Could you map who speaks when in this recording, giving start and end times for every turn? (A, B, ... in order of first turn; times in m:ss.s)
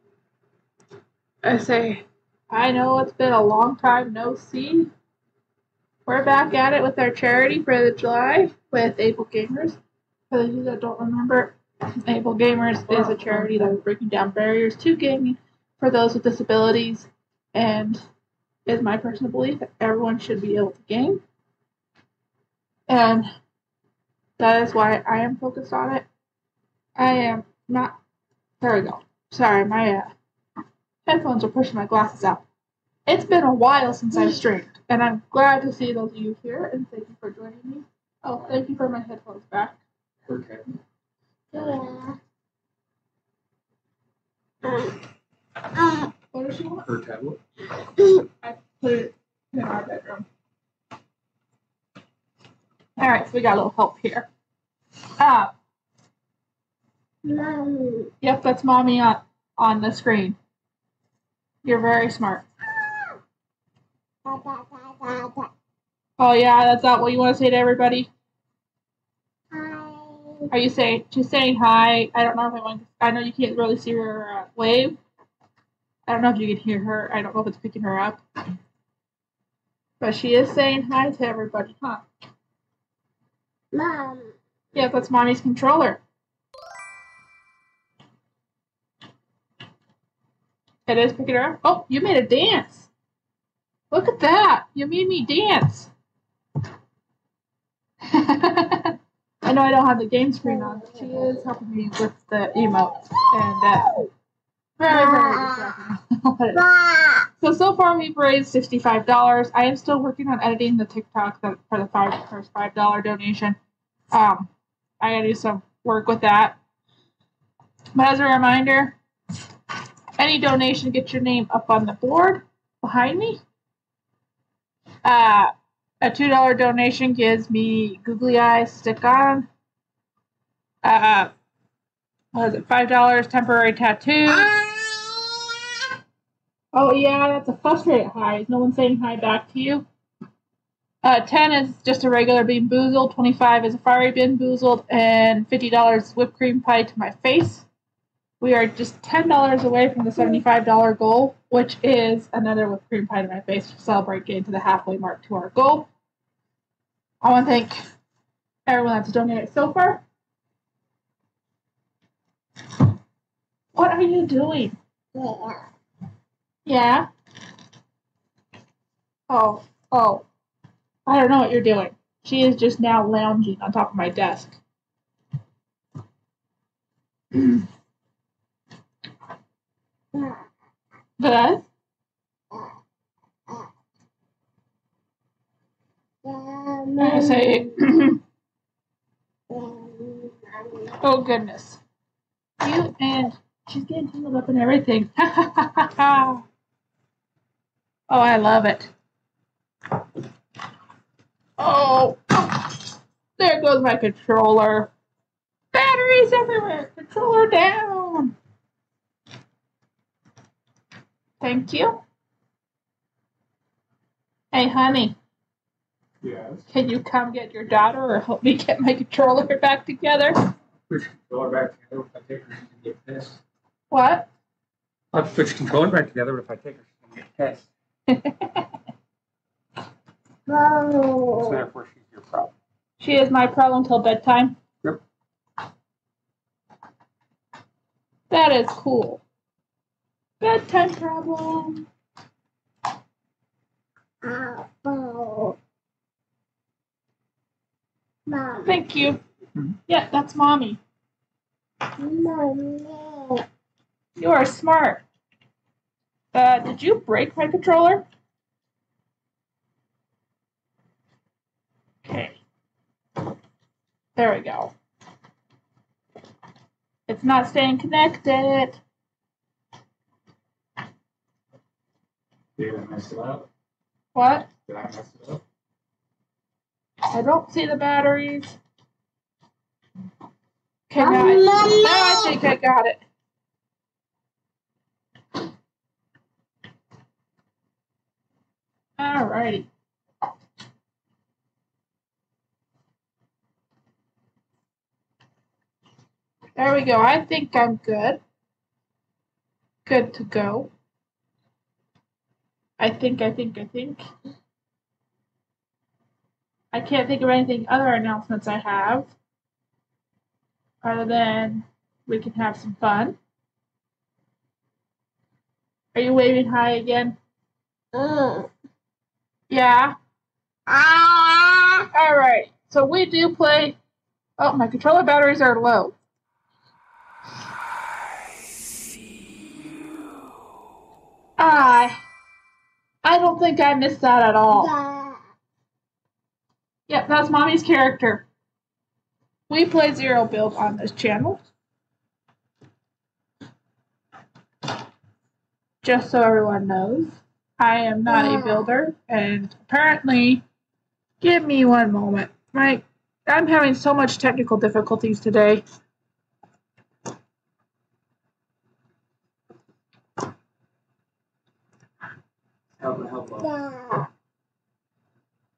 0:01.4-0:04.9 A
0:06.0-0:09.8 A
0:10.3-0:18.0 A
0:18.6-0:21.2 A
0:22.9-0:23.3 A
0:24.4-0:26.1 A
0:27.0-0:28.0 A
0:28.6-0:30.1 A
0:31.0-0:32.4 A
0:33.1-0:39.8 A
0:34.2-0:34.4 B
0:40.3-0:40.6 C
0:41.5-0:42.2 B
0:44.6-0:45.0 B
0:45.7-0:46.1 B
0:46.3-0:46.9 A
0:46.8-0:47.4 C
0:48.0-0:48.2 B
0:48.4-0:50.3 A
0:53.0-0:54.3 A
0:55.2-0:55.5 A
0:57.2-0:58.1 B
0:58.2-1:00.4 A
1:01.6-1:02.4 A
1:04.2-1:05.5 B
1:06.2-1:08.1 A
1:09.5-1:10.5 B
1:10.5-1:15.0 A
1:16.0-1:18.2 A
1:20.0-1:22.0 A
1:23.7-1:24.3 B
1:24.7-1:26.0 A
1:30.9-1:32.9 A
1:33.9-1:35.9 A
1:38.0-1:44.0 A
1:40.5-1:41.0 B
1:43.6-1:44.1 B
1:44.8-1:46.6 A
1:44.9-1:45.7 B
1:46.5-1:47.3 B
1:47.4-1:53.6 A
1:54.1-1:54.5 A
1:55.0-1:56.6 A
1:57.9-1:59.0 A
2:00.2-2:03.4 A
2:05.0-2:09.5 A
2:10.8-2:11.3 A
2:12.3-2:14.5 A
2:14.2-2:15.7 B
2:16.7-2:19.8 A
2:21.0-2:27.7 A
2:28.4-2:35.9 A
2:37.2-2:37.8 A
2:38.7-2:40.0 A
2:43.7-2:44.8 A
2:45.1-2:45.6 B
2:46.6-2:47.1 A
2:49.3-2:50.2 A
2:51.0-2:54.6 A
2:57.3-2:57.6 A
3:00.1-3:00.4 B
3:01.2-3:01.6 A
3:06.2-3:07.7 B
3:07.0-3:08.2 A
3:09.5-3:11.0 B
3:11.0-3:11.8 A
3:12.6-3:16.4 A
3:18.1-3:18.9 A
3:21.6-3:22.9 A
3:23.4-3:24.9 A
3:25.7-3:28.3 A
3:31.4-3:32.0 A
3:34.5-3:35.2 A
3:36.2-3:36.6 C
3:36.7-3:40.4 A
3:40.9-3:43.4 C
3:43.9-3:44.3 A
3:45.1-3:47.7 C
3:48.1-3:48.6 A
3:50.5-3:51.6 B
3:51.4-3:52.5 C
3:53.0-3:54.6 A
3:58.3-3:59.2 A
4:00.4-4:01.8 A
4:04.2-4:05.6 B
4:08.3-4:08.8 B
4:08.6-4:09.2 A
4:09.9-4:10.8 A
4:12.0-4:13.4 B
4:14.2-4:15.0 A
4:16.3-4:18.0 A
4:22.0-4:22.4 A
4:24.2-4:24.7 A
4:27.1-4:28.8 A
4:32.6-4:33.5 C
4:34.1-4:34.5 A
4:34.6-4:35.4 C
4:37.1-4:38.6 A
4:40.9-4:43.0 A
4:41.0-4:42.4 B
4:49.0-4:49.7 A
4:56.6-4:58.2 A
4:59.8-5:00.7 A
5:02.8-5:04.0 A
5:06.7-5:09.1 A
5:10.8-5:13.2 A
5:15.9-5:17.2 A
5:17.9-5:18.5 B
5:19.5-5:19.9 A
5:20.7-5:21.9 B
5:21.9-5:23.8 A
5:24.4-5:26.0 A
5:31.4-5:32.0 A
5:33.0-5:34.7 A
5:34.5-5:35.2 B
5:36.9-5:38.2 A
5:39.5-5:41.4 A
5:45.8-5:50.4 A
5:48.1-5:48.7 B
5:51.2-5:55.6 A
6:02.8-6:03.5 C
6:03.4-6:04.1 B